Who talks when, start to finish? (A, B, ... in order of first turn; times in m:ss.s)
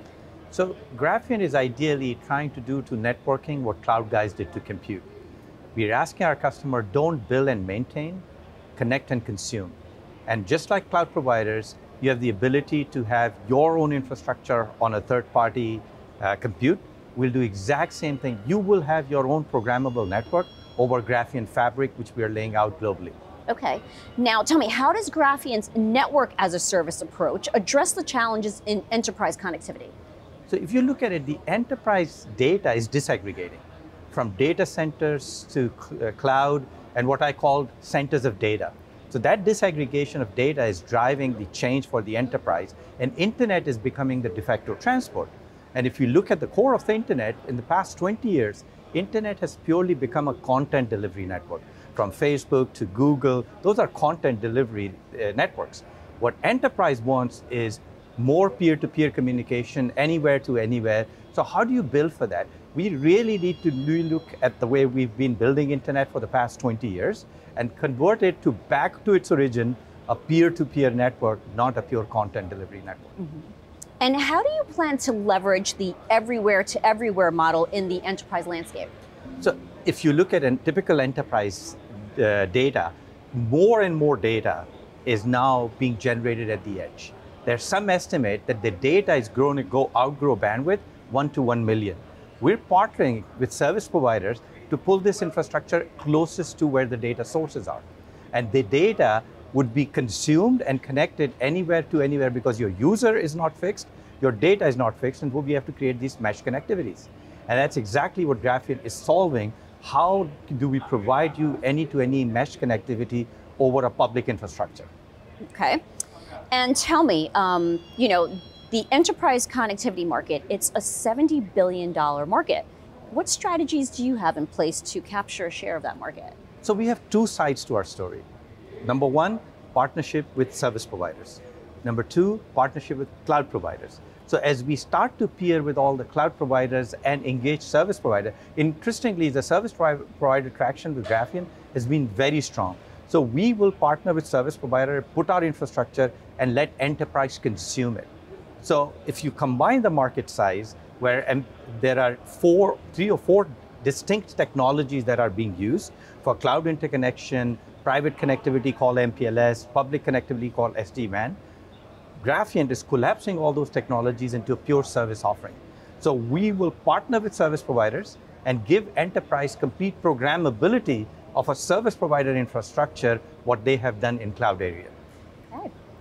0:00.5-0:05.0 A
0:05.7-0:08.2 A
0:08.8-0:09.8 A
0:10.3-0:23.2 A
0:23.5-0:29.9 B
0:30.5-1:13.2 A
1:13.2-1:13.5 B
1:14.0-1:18.9 B
1:19.4-1:54.9 A
1:55.5-1:55.8 B
1:56.5-2:06.3 B
2:06.6-2:08.2 A
2:08.8-2:28.1 A
2:28.6-2:41.4 A
2:42.2-2:54.9 A